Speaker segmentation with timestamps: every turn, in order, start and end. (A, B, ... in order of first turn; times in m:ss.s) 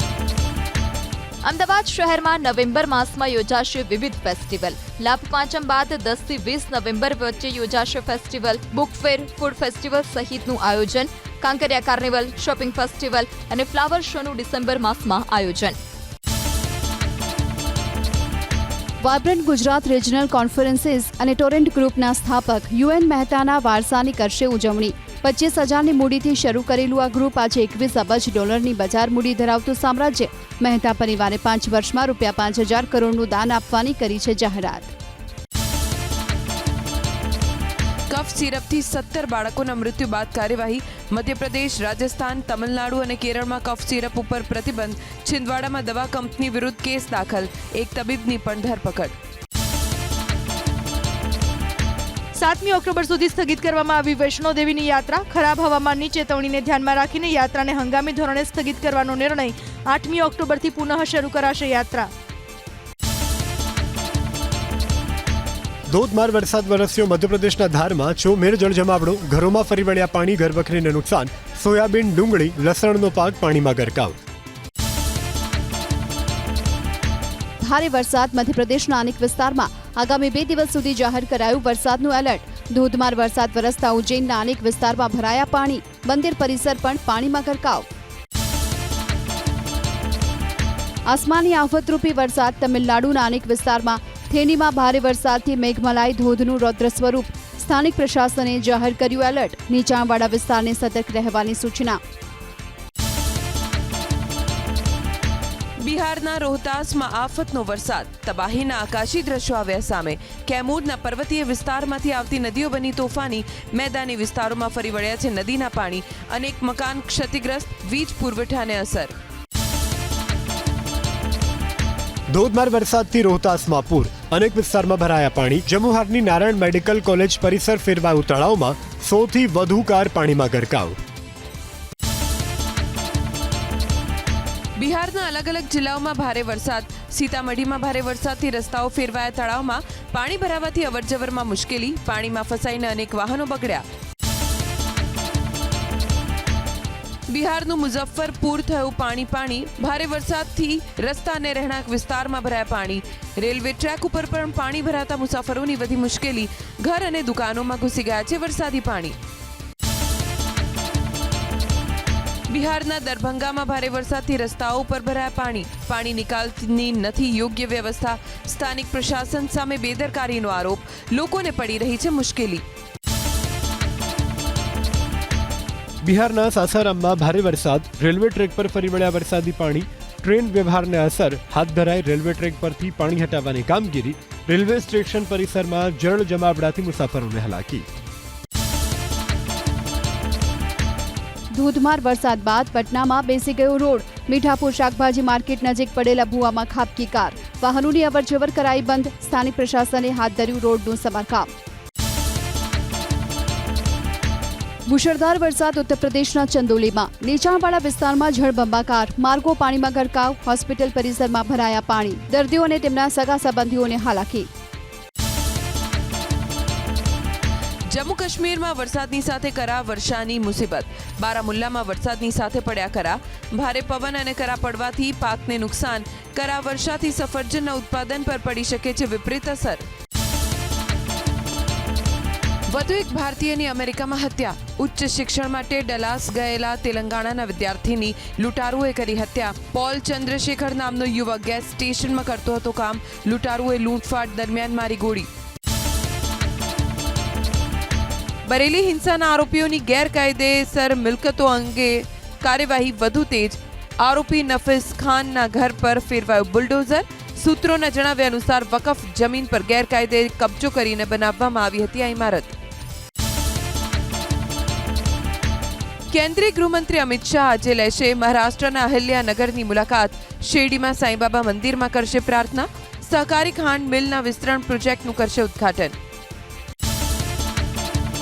0:01.4-0:15.8 A
0:19.0-0:34.9 B
0:38.1-0:49.2 C
0:52.3-1:02.1 D
1:05.9-1:14.2 E
1:17.6-1:27.8 B
1:31.1-1:42.0 B
1:45.8-1:59.1 C
2:02.3-2:11.0 E
2:14.8-2:23.8 C
2:27.3-2:39.2 C
2:42.5-2:52.6 C
2:56.0-3:07.9 E
3:11.5-3:21.5 B
3:24.9-3:34.5 B
3:37.9-3:49.9 C
3:52.7-4:05.3 C
4:08.4-4:22.6 C
4:26.1-4:36.0 C